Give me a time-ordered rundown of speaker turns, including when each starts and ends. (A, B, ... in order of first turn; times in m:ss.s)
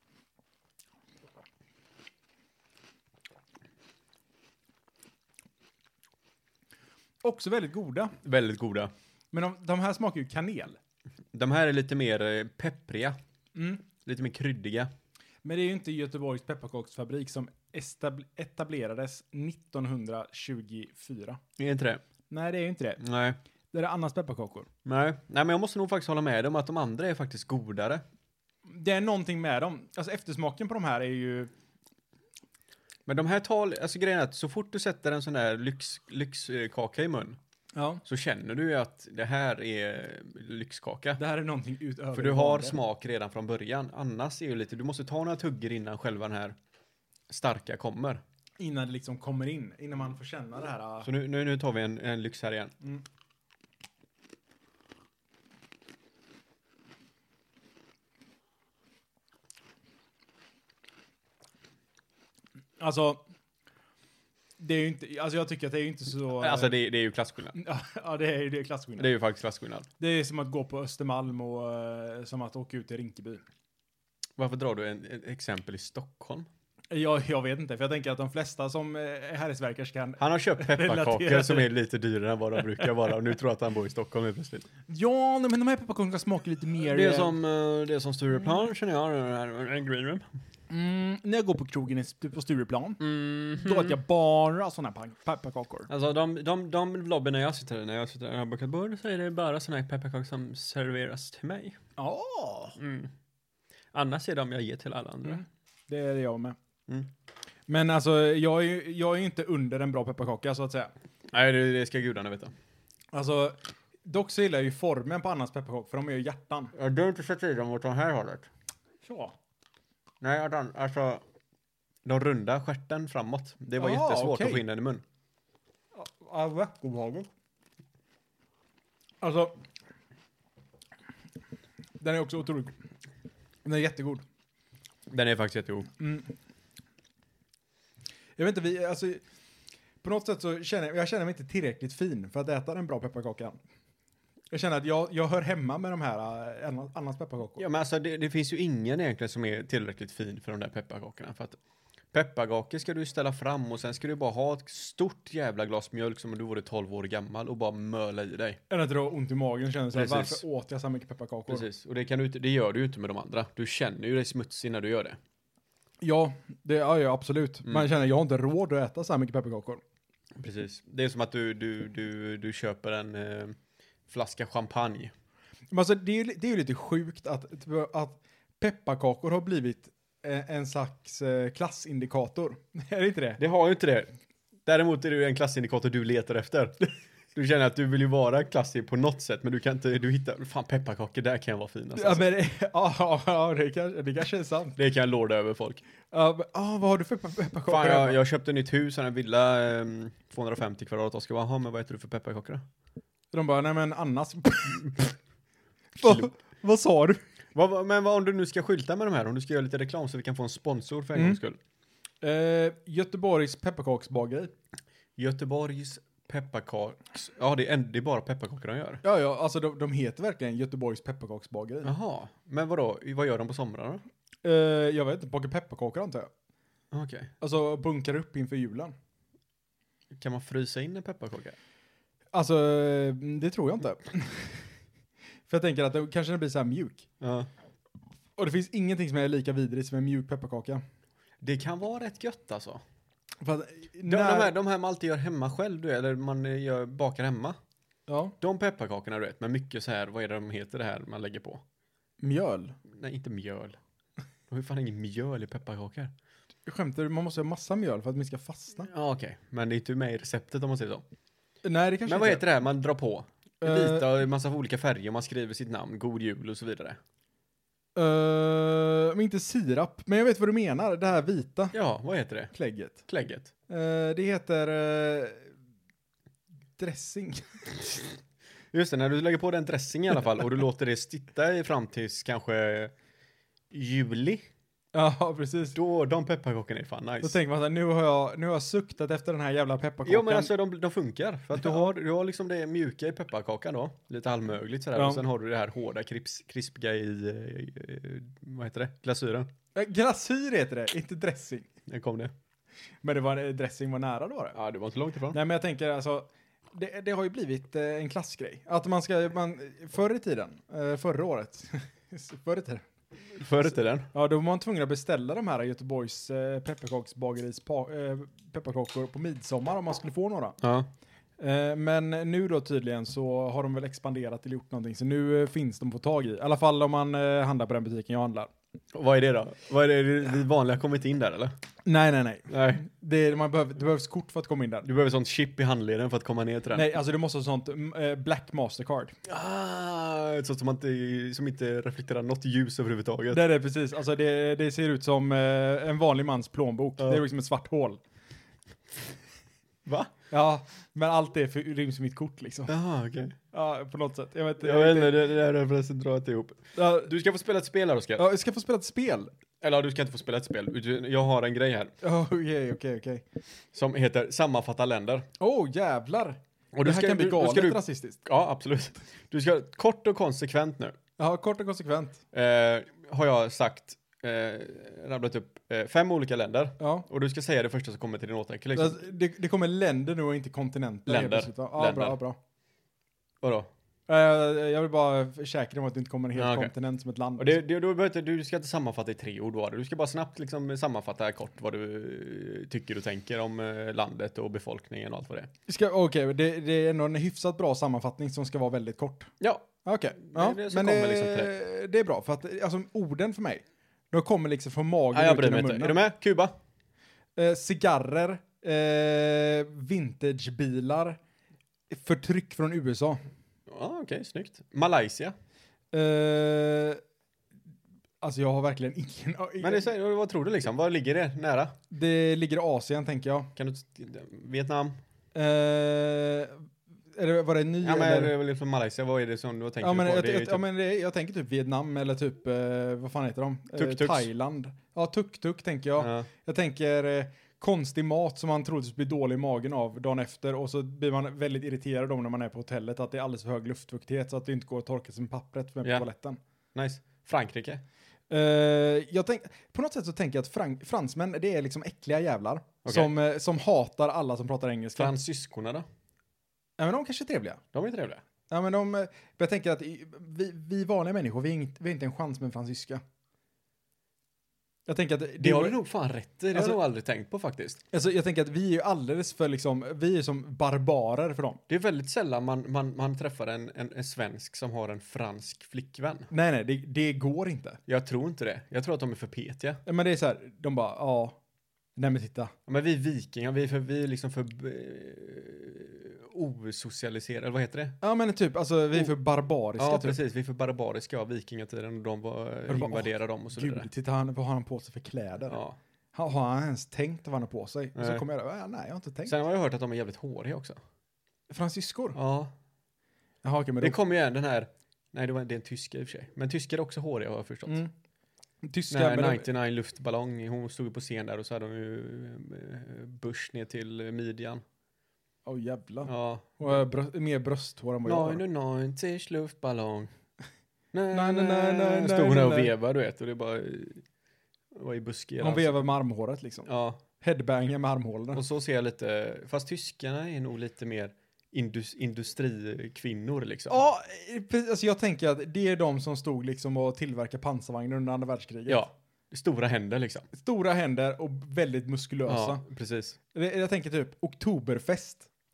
0:07.2-0:08.2 A
0:08.2-0:08.9 B
0:09.3-0:10.8 A
0:11.3-0:13.2 B
0:13.6-0:13.8 A
0:14.0-0:14.9 B
0:15.4-0:21.4 A
0:21.6-0:22.0 B
0:22.3-0:23.0 A
0:23.0-0:23.4 B
0:23.7-0:24.7 A
0:24.8-0:28.0 B
0:28.7-0:31.5 A
0:33.0-0:37.4 B
0:37.7-0:38.0 A
0:38.0-0:41.2 B
0:41.2-0:42.8 A
0:42.1-0:46.6 B
0:47.3-0:48.2 B
0:48.6-0:51.1 A
0:51.0-0:52.7 B
1:02.8-1:03.2 A
1:04.6-1:06.8 A
1:06.3-1:07.5 B
1:07.5-1:09.1 A
1:09.0-1:09.9 B
1:10.0-1:13.4 A
1:14.4-1:16.5 B
1:16.9-1:21.7 A
1:20.2-1:24.7 B
1:24.9-1:27.4 A
1:26.8-1:30.2 B
1:30.7-1:33.0 A
1:33.0-1:34.0 B
1:33.6-1:35.9 A
1:35.9-1:41.8 B
1:42.0-1:42.8 A
1:42.8-1:43.1 B
1:43.9-1:45.4 B
1:45.3-1:46.6 A
1:47.7-1:50.9 A
1:51.3-1:52.5 B
1:53.1-1:56.7 A
1:56.7-1:58.5 B
1:59.0-1:59.3 A
2:00.2-2:01.2 B
2:02.0-2:05.0 B
2:03.8-2:04.6 A
2:05.9-2:07.3 A
2:09.2-2:09.6 A
2:12.0-2:12.7 A
2:13.6-2:14.2 A
2:15.1-2:15.9 B
2:16.0-2:16.3 A
2:18.4-2:19.2 A
2:20.0-2:23.6 A
2:24.5-2:27.6 A
2:27.6-2:31.6 B
2:32.1-2:38.6 B
2:38.7-2:41.6 A
2:39.9-2:40.4 B
2:41.5-2:45.2 B
2:46.0-2:49.8 A
2:50.4-2:53.6 B
2:54.1-2:55.1 B
2:55.7-3:03.4 A
3:03.4-3:04.1 B
3:04.6-3:12.2 B
3:12.0-3:14.8 A
3:14.8-3:15.8 B
3:16.1-3:18.2 A
3:17.7-3:22.6 B
3:23.3-3:25.0 A
3:26.0-3:27.2 A
3:26.0-3:26.3 B
3:27.5-3:31.6 B
3:32.2-3:34.5 A
3:35.2-3:39.0 B
3:39.0-3:41.9 A
3:41.8-3:44.0 B
3:44.4-3:46.3 A
3:46.9-3:47.3 B
3:47.4-3:48.9 A
3:50.1-3:51.6 B
3:52.3-3:54.7 A
3:55.5-3:57.1 A
3:57.2-3:57.5 B
3:58.4-4:00.8 A
4:01.4-4:02.8 B
4:03.4-4:04.5 A
4:04.1-4:07.6 B
4:08.1-4:08.3 A
4:08.4-4:11.6 B
4:12.2-4:12.8 A
4:12.9-4:13.8 B
4:14.5-4:16.1 B
4:16.6-4:18.9 A
4:18.9-4:21.0 B
4:21.6-4:22.4 A
4:22.0-4:27.0 B
4:23.6-4:24.1 A
4:28.0-4:31.7 A
4:31.7-4:32.5 B
4:32.5-4:33.0 A
4:33.0-4:33.5 B
4:33.7-4:35.5 A
4:36.8-4:37.7 A
4:38.7-4:42.9 B
4:43.7-4:44.4 B
4:44.9-4:45.8 A
4:45.7-4:47.4 B
4:47.2-4:50.5 A
4:50.0-4:59.5 B
4:51.6-4:51.9 A
4:55.0-4:55.2 A
4:59.7-5:01.7 A
5:01.9-5:02.3 B
5:03.0-5:04.6 A
5:04.5-5:05.4 B
5:05.3-5:12.9 A
5:13.3-5:14.1 B
5:14.1-5:20.6 A
5:20.6-5:20.9 B
5:21.4-5:28.5 A
5:28.9-5:31.5 B
5:31.8-5:34.8 A
5:32.5-5:32.8 B
5:34.8-5:36.8 B
5:36.7-5:39.2 A
5:39.2-5:43.4 B
5:43.3-5:48.0 A
5:47.0-5:47.2 B
5:49.8-5:50.1 B
5:50.3-5:52.7 A
5:52.7-5:53.4 B
5:53.5-5:55.2 A
5:54.6-5:58.2 B
5:56.8-5:57.1 A
5:58.2-5:59.3 A
5:59.6-6:01.9 B
6:02.0-6:03.2 A
6:03.7-6:05.2 B
6:05.4-6:08.2 A
6:06.7-6:11.0 B
6:11.2-6:12.2 A
6:12.3-6:19.0 B
6:16.8-6:17.0 A
6:18.7-6:22.4 A
6:21.1-6:22.2 B
6:23.4-6:23.7 B
6:24.1-6:27.6 A
6:26.3-6:26.7 B
6:27.4-6:35.5 B
6:35.7-6:39.3 A
6:39.4-6:41.5 B
6:39.8-6:46.0 A
6:45.1-6:46.5 B
6:47.4-6:51.2 A
6:51.9-6:53.2 A
6:53.7-6:55.3 B
6:55.9-6:57.0 A
6:58.2-6:59.9 A
6:59.6-7:01.8 B
7:01.9-7:03.5 A
7:03.6-7:05.0 B
7:05.3-7:08.3 A
7:07.8-7:10.6 B
7:09.8-7:26.4 A
7:13.7-7:14.3 B
7:16.0-7:16.3 B
7:26.7-7:27.8 B
7:28.3-7:35.1 A
7:32.8-7:33.1 B
7:35.0-7:35.8 B
7:36.8-7:37.6 A
7:37.7-7:38.2 B
7:38.5-7:43.0 A
7:44.9-7:45.8 A
7:45.4-7:47.8 B
7:46.5-7:46.8 A
7:47.9-7:51.6 A
7:51.7-7:56.3 B
7:56.3-7:57.8 A
7:57.9-7:59.8 B
7:59.8-8:01.4 A
8:02.0-8:02.5 A
8:02.7-8:08.0 B
8:08.0-8:10.2 A
8:09.8-8:13.9 B
8:12.7-8:15.6 A
8:15.5-8:15.8 B
8:16.1-8:19.3 A
8:18.0-8:18.2 B
8:19.2-8:20.8 B
8:21.5-8:22.2 A
8:22.1-8:22.5 B
8:23.4-8:24.0 A
8:23.8-8:27.8 B
8:28.6-8:29.5 A
8:28.9-8:34.6 B
8:35.4-8:38.4 A
8:36.0-8:36.8 B
8:38.0-8:40.1 B
8:40.9-8:44.0 B
8:41.1-8:42.7 A
8:44.7-8:45.8 B
8:45.4-8:46.7 A
8:46.6-8:47.0 B
8:47.2-8:48.4 A
8:48.3-8:53.8 B
8:53.7-8:58.8 A
8:58.7-9:00.3 B
9:00.3-9:02.6 A
9:02.3-9:03.2 B
9:03.3-9:05.3 A